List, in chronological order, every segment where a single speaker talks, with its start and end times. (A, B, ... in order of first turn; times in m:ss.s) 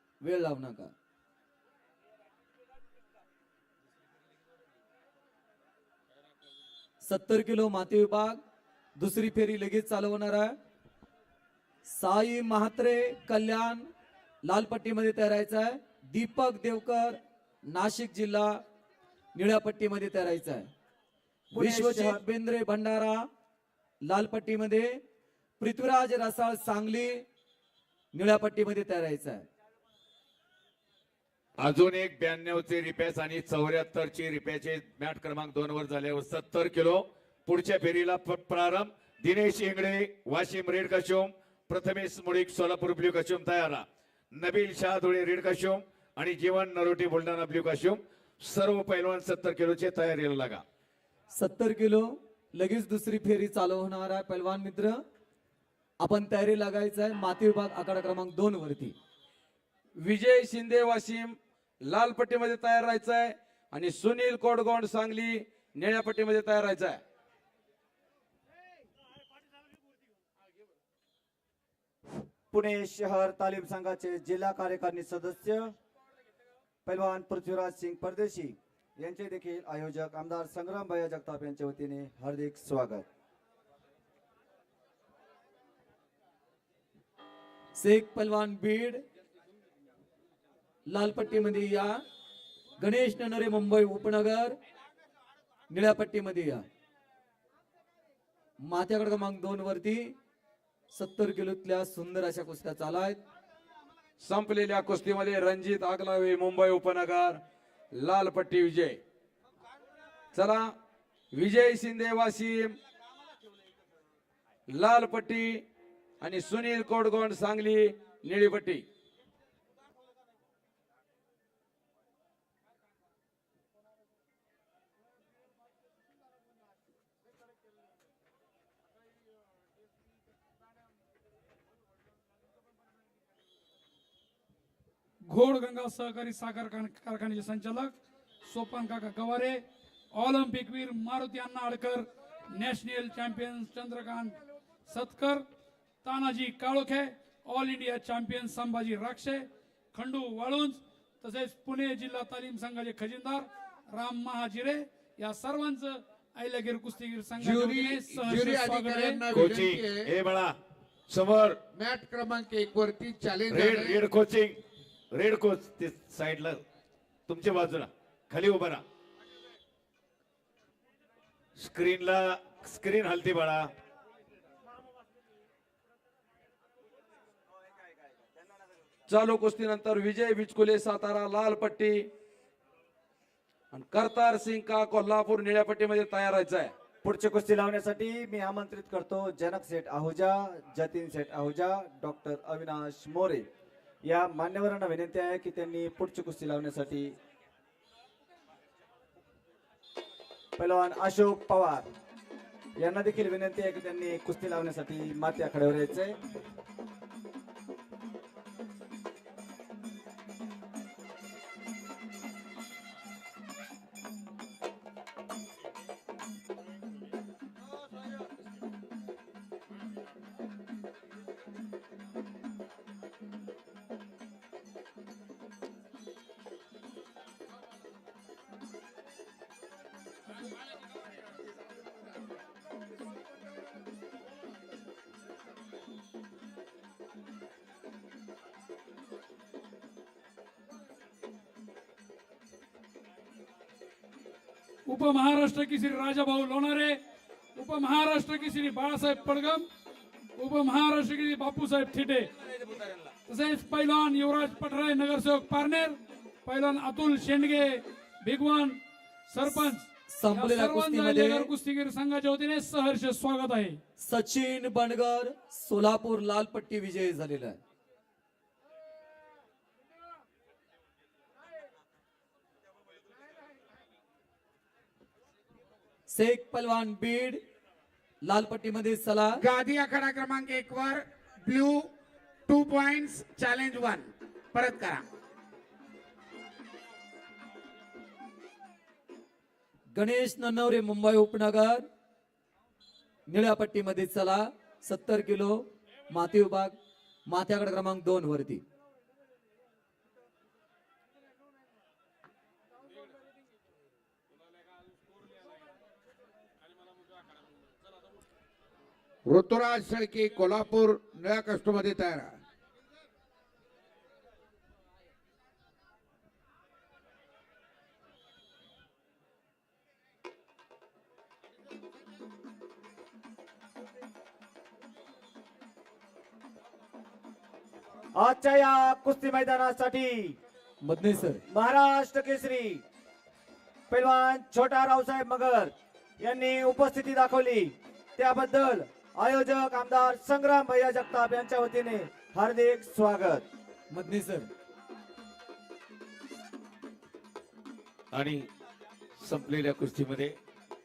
0:00.2-0:00.9 A
0:07.0-0:08.4 A
0:09.0-0:10.6 A
0:11.8-0:13.9 A
0:14.4-0:18.6 A
0:19.3-0:20.7 A
0:21.5-0:22.2 B
0:21.5-0:23.3 A
0:24.0-0:25.0 A
0:25.6-0:27.2 A
0:28.1-0:29.4 A
0:31.6-0:50.6 C
0:51.3-0:55.0 A
0:56.0-0:59.0 A
1:00.0-1:07.0 D
1:12.4-1:15.7 B
1:16.8-1:23.0 B
1:27.8-1:29.0 A
1:30.9-1:32.0 A
1:32.8-1:34.6 A
1:35.7-1:36.6 A
1:38.6-1:40.1 A
1:40.9-1:43.2 A
1:44.2-1:47.4 D
1:47.9-1:49.0 D
1:50.3-1:50.6 D
1:51.3-1:52.8 D
1:54.7-1:55.6 D
1:56.2-1:58.8 D
2:15.2-2:25.4 E
2:26.0-2:39.3 E
2:37.4-2:40.0 F
2:39.3-2:40.6 C
2:41.1-2:41.6 C
2:41.7-2:44.0 F
2:43.5-2:44.6 C
2:45.1-2:46.6 C
2:47.3-2:48.8 C
2:51.6-2:53.7 C
2:59.1-3:02.1 D
3:03.7-3:06.7 D
3:07.0-3:13.5 B
3:14.0-3:17.1 B
3:20.6-3:21.8 B
3:22.8-3:26.1 B
4:04.8-4:07.0 E
4:07.6-4:09.6 E
4:10.4-4:12.3 E
4:12.4-4:13.1 D
4:13.2-4:23.8 E
4:20.1-4:21.5 A
4:24.0-4:27.6 A
4:36.1-4:37.4 A
4:38.2-4:39.4 A
4:39.4-4:41.9 G
4:42.5-4:45.0 G
4:49.9-4:51.8 A
4:53.3-4:56.7 A
4:57.2-4:58.6 A
5:09.3-5:12.3 F
5:28.1-5:30.3 B
5:30.8-5:31.4 A
5:31.5-5:32.8 B
5:33.9-5:43.4 B
5:43.9-5:44.5 A
5:48.1-5:48.5 C
5:49.2-5:50.4 C